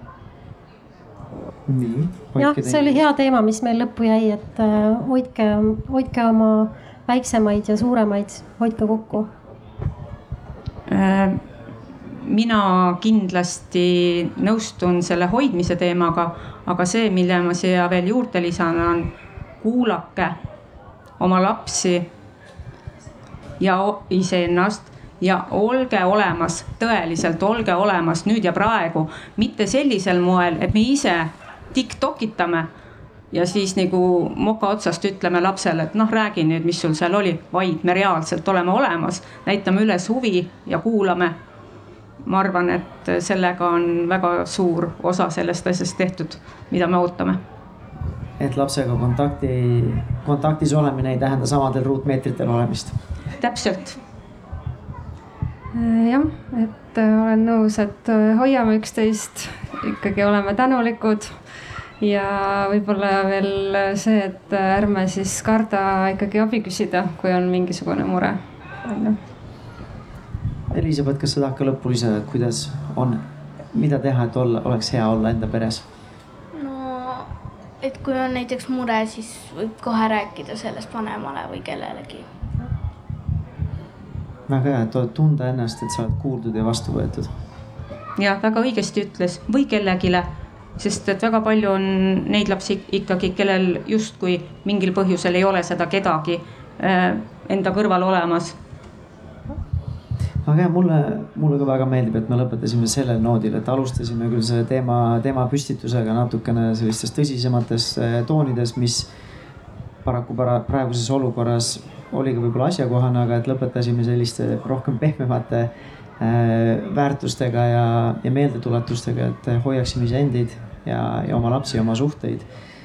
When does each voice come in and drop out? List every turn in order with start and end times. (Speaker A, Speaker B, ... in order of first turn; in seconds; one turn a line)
Speaker A: 1.7-3.0
Speaker B: 2.4-9.3
Speaker C: 10.9-11.4
Speaker C: 12.2-19.1
Speaker C: 19.6-20.4
Speaker C: 21.2-22.1
Speaker C: 23.6-32.7
Speaker C: 33.3-41.3
Speaker C: 42.2-47.4
Speaker A: 48.4-53.0
Speaker C: 53.4-54.0
Speaker D: 55.7-61.3
Speaker D: 62.0-69.2
Speaker A: 70.7-75.8
Speaker E: 76.5-82.3
Speaker A: 84.5-87.3
Speaker C: 88.2-98.5
Speaker A: 100.4-109.1
Speaker A: 110.0-122.5